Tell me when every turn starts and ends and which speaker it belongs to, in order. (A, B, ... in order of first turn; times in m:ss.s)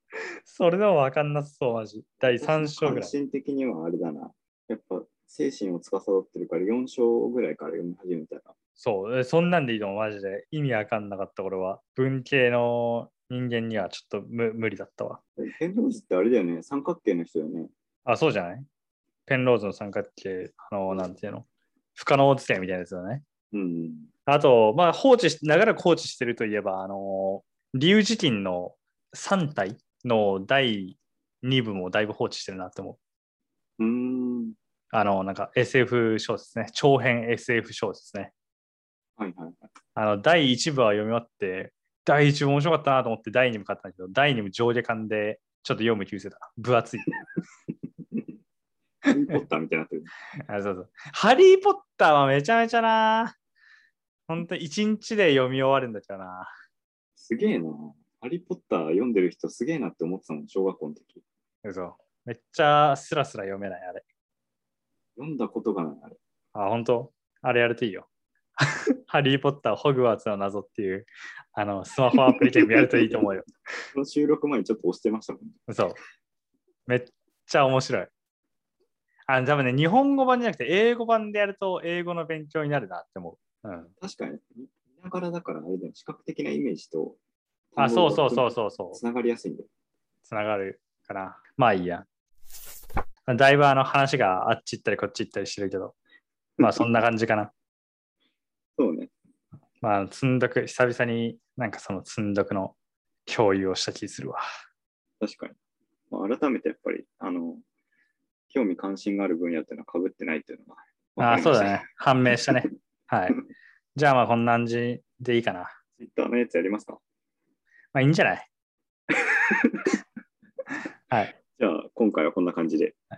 0:00.5-0:03.1 A
0:02.2-0:08.5 B
0:08.8-0:15.2 A
0:15.4-0:17.7 B
0:18.1-0:18.7 A
0:19.3-0:23.2 A
0:23.5-0:24.1 B
0:24.3-0:33.0 A
0:33.8-0:34.6 B
0:34.9-0:38.3 A
0:39.2-0:39.6 B
0:40.0-0:47.1 A
0:49.1-0:50.1 B
0:50.5-0:53.4 A
0:54.3-0:56.5 A
0:57.2-1:01.2 B
1:01.6-1:04.0 A
1:05.2-1:06.2 B
1:06.6-1:08.1 A
1:08.6-1:13.4 A
1:12.1-1:13.2 B
1:13.9-1:15.7 B
1:15.7-1:16.0 A
1:16.9-1:18.1 A
1:19.3-1:23.9 A
1:24.0-1:27.2 B
1:27.7-1:29.7 B
1:27.8-1:29.0 A
1:30.3-1:32.0 A
1:33.3-1:36.0 A
1:36.6-1:36.8 B
1:36.6-1:37.5 A
1:38.8-1:39.1 B
1:39.8-1:42.8 A
1:43.3-1:44.4 A
1:45.2-1:45.6 B
1:46.1-1:47.6 B
1:48.5-1:52.5 B
1:51.2-1:53.4 A
1:54.0-1:55.8 A
1:56.0-1:57.0 B
1:57.9-1:58.5 A
1:59.1-1:59.9 B
2:01.5-2:03.0 B